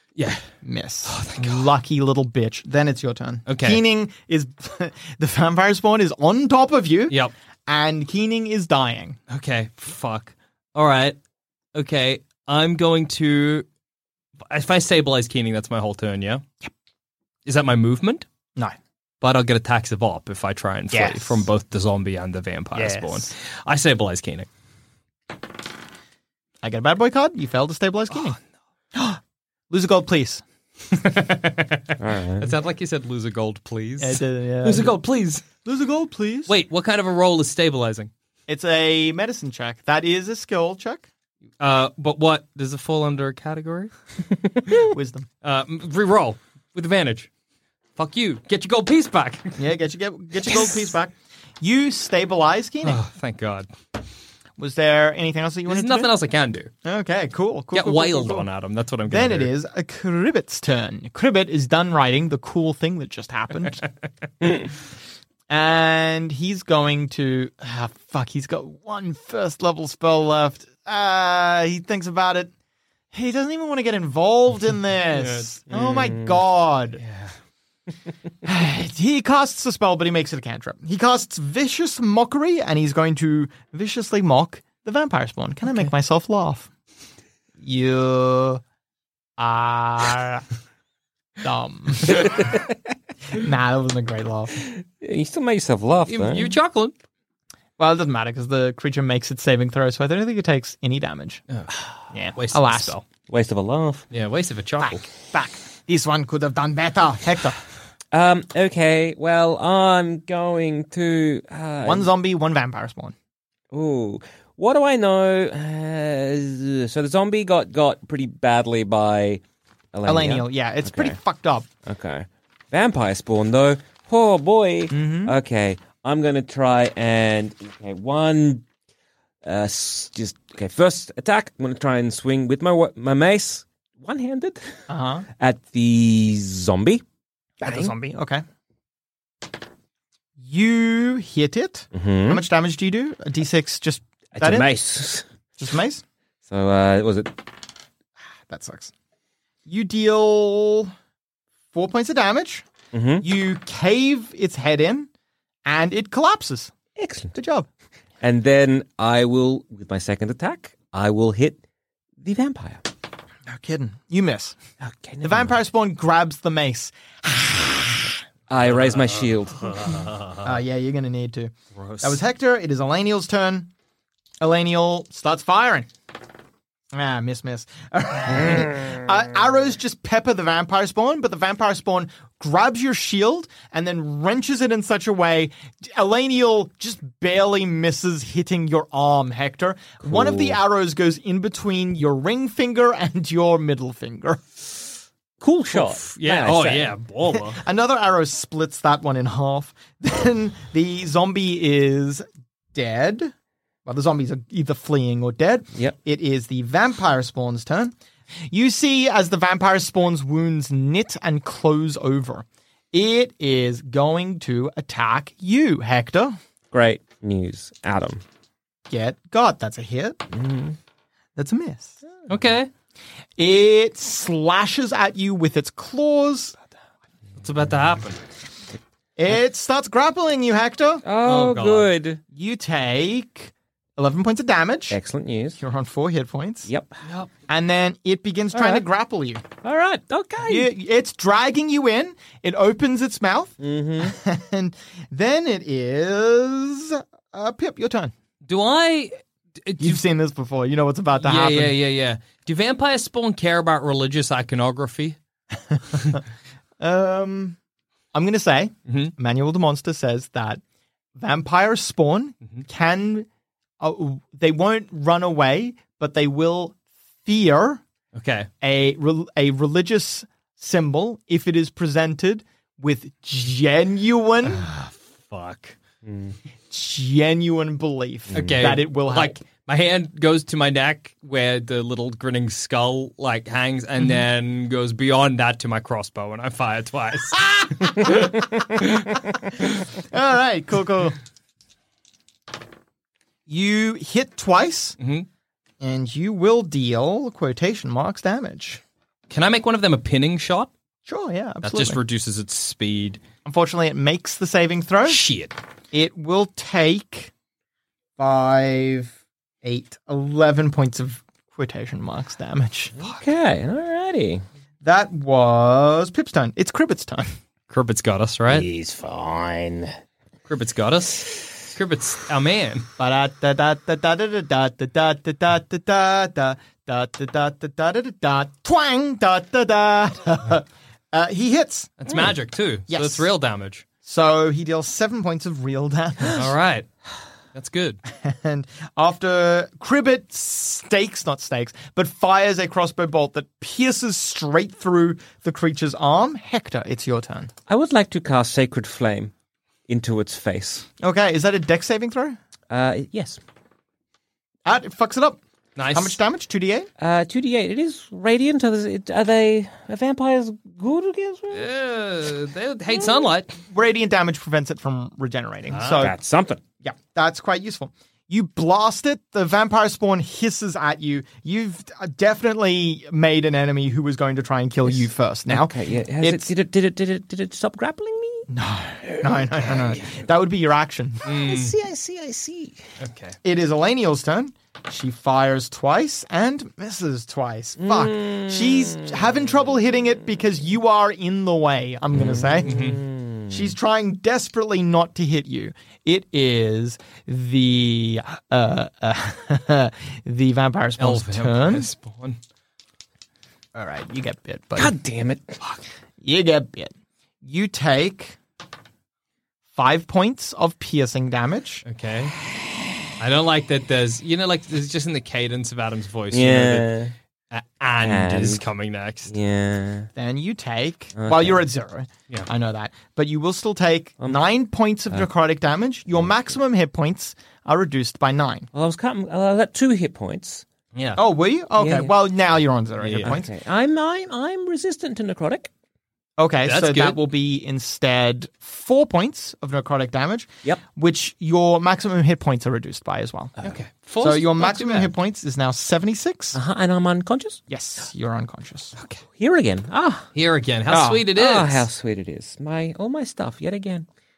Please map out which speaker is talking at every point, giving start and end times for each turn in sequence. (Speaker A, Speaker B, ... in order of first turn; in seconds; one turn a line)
Speaker A: 0.2-0.5
Speaker B: 0.6-9.2
Speaker A: 1.1-1.7
Speaker A: 3.5-3.8
Speaker A: 9.3-11.2
Speaker A: 11.8-13.7
Speaker A: 14.5-16.4
Speaker A: 17.5-18.2
Speaker A: 19.2-24.5
Speaker B: 20.9-21.5
Speaker B: 22.8-23.3
Speaker B: 26.6-28.4
Speaker A: 28.1-28.4
Speaker B: 28.9-30.4
Speaker A: 31.0-35.5
Speaker C: 32.0-32.5
Speaker B: 34.0-35.0
Speaker B: 35.6-36.5
Speaker A: 36.5-38.1
Speaker B: 38.5-41.1
Speaker A: 41.6-43.9
Speaker B: 44.8-45.3
Speaker A: 45.4-47.3
Speaker A: 48.0-49.6
Speaker B: 49.6-53.0
Speaker A: 50.4-50.8
Speaker A: 52.8-53.7
Speaker B: 54.6-56.1
Speaker A: 55.7-56.7
Speaker B: 56.9-58.5
Speaker A: 57.7-59.5
Speaker B: 59.1-63.9
Speaker B: 65.5-72.5
Speaker B: 73.1-77.0
Speaker A: 75.1-75.5
Speaker C: 75.7-76.4
Speaker A: 77.0-77.3
Speaker B: 78.4-86.7
Speaker B: 87.6-88.6
Speaker B: 89.4-90.5
Speaker B: 91.4-92.6
Speaker B: 93.3-94.6
Speaker C: 94.6-96.6
Speaker A: 96.1-96.9
Speaker B: 97.8-101.4
Speaker B: 102.1-103.0
Speaker A: 102.4-103.0
Speaker C: 103.3-104.1
Speaker A: 104.1-105.0
Speaker B: 104.8-107.6
Speaker C: 108.1-112.1
Speaker B: 111.8-113.1
Speaker C: 113.7-121.2
Speaker B: 120.1-121.7
Speaker C: 121.8-128.7
Speaker B: 124.9-125.3
Speaker C: 129.4-134.9
Speaker B: 134.9-135.3
Speaker C: 135.4-137.0
Speaker C: 137.6-137.9
Speaker B: 137.6-138.4
Speaker B: 140.4-144.7
Speaker C: 141.9-142.4
Speaker C: 144.3-145.2
Speaker B: 145.6-146.0
Speaker C: 146.5-147.4
Speaker B: 148.5-148.9
Speaker B: 149.7-150.9
Speaker B: 151.7-152.7
Speaker C: 152.9-153.3
Speaker B: 153.2-155.1
Speaker B: 155.7-156.7
Speaker C: 157.0-157.3
Speaker B: 157.3-157.7
Speaker C: 158.2-161.6
Speaker C: 162.2-162.9
Speaker B: 163.5-164.6
Speaker C: 164.8-165.6
Speaker B: 165.2-168.2
Speaker C: 168.5-170.1
Speaker A: 168.8-170.4
Speaker B: 170.4-173.7
Speaker A: 171.8-172.2
Speaker B: 174.4-175.9
Speaker B: 176.9-194.4
Speaker C: 178.4-178.8
Speaker C: 190.1-190.6
Speaker C: 195.4-197.0
Speaker A: 195.7-197.6
Speaker B: 197.5-203.3
Speaker B: 203.9-207.9
Speaker B: 208.5-216.4
Speaker C: 216.7-218.2
Speaker B: 218.9-220.2
Speaker C: 220.3-220.8
Speaker B: 221.4-222.0
Speaker A: 222.3-222.7
Speaker B: 223.4-226.6
Speaker A: 227.4-228.2
Speaker B: 229.2-231.0
Speaker C: 231.0-232.2
Speaker A: 231.2-231.9
Speaker B: 232.3-235.0
Speaker C: 234.9-235.6
Speaker B: 235.6-236.7
Speaker C: 236.7-236.9
Speaker B: 237.5-239.4
Speaker C: 238.5-238.9
Speaker C: 239.6-240.7
Speaker B: 240.5-248.1
Speaker C: 243.6-244.2
Speaker A: 248.5-250.0
Speaker B: 249.8-251.8
Speaker A: 251.2-255.2
Speaker B: 255.7-256.2
Speaker B: 256.8-257.6
Speaker B: 258.1-260.6
Speaker A: 258.9-259.1
Speaker B: 261.2-263.3
Speaker B: 263.8-267.8
Speaker A: 268.1-268.5
Speaker B: 268.6-274.7
Speaker A: 274.5-275.8
Speaker C: 276.1-276.4
Speaker B: 276.7-279.4
Speaker C: 278.3-278.7
Speaker A: 278.3-288.6
Speaker B: 287.5-288.4
Speaker B: 290.0-291.2
Speaker B: 293.5-295.0
Speaker A: 295.0-295.3
Speaker B: 295.8-298.8
Speaker A: 299.3-300.7
Speaker B: 301.1-302.0
Speaker A: 301.6-303.2
Speaker B: 303.5-305.2
Speaker A: 305.1-305.6
Speaker B: 305.9-307.3
Speaker B: 308.2-312.9
Speaker C: 313.0-314.4
Speaker B: 314.8-317.3
Speaker A: 317.7-318.7
Speaker C: 318.5-319.9
Speaker A: 320.5-322.9
Speaker B: 323.0-332.2
Speaker A: 332.0-333.8
Speaker B: 332.9-333.3
Speaker B: 334.1-336.5
Speaker A: 336.3-336.9
Speaker A: 337.5-338.0
Speaker B: 338.2-347.5
Speaker C: 347.7-349.3
Speaker C: 349.9-350.9
Speaker B: 351.0-352.4
Speaker C: 352.7-353.4
Speaker B: 354.7-355.4
Speaker A: 355.8-356.2
Speaker B: 355.9-356.9
Speaker C: 357.0-361.7
Speaker A: 361.5-363.5
Speaker B: 363.7-366.1
Speaker A: 365.7-366.1
Speaker C: 365.9-366.6
Speaker B: 366.8-376.5
Speaker C: 374.9-378.5
Speaker B: 378.5-381.2
Speaker C: 379.0-380.1
Speaker A: 381.3-381.7
Speaker C: 381.3-382.8
Speaker A: 383.0-383.4
Speaker B: 383.4-392.7
Speaker C: 387.8-389.4
Speaker C: 392.1-393.8
Speaker A: 392.6-393.0
Speaker B: 393.5-401.9
Speaker A: 401.0-402.4
Speaker B: 403.8-404.9
Speaker C: 404.8-405.6
Speaker B: 406.2-408.4
Speaker B: 409.7-411.8
Speaker A: 411.9-412.3
Speaker A: 413.2-417.0
Speaker C: 416.3-417.1
Speaker A: 417.5-419.3
Speaker C: 418.0-418.7
Speaker C: 419.3-420.1
Speaker B: 420.2-428.7
Speaker C: 421.2-421.7
Speaker C: 428.7-430.6
Speaker A: 430.9-431.2
Speaker B: 431.2-433.5
Speaker C: 431.8-432.1
Speaker A: 433.0-433.3
Speaker C: 433.2-435.7
Speaker B: 436.4-443.6
Speaker A: 436.6-437.2
Speaker A: 443.6-445.1
Speaker B: 444.2-446.6
Speaker C: 446.5-447.6
Speaker B: 447.7-448.9
Speaker C: 449.4-450.3
Speaker A: 450.4-451.9
Speaker B: 450.9-451.3
Speaker C: 451.3-454.1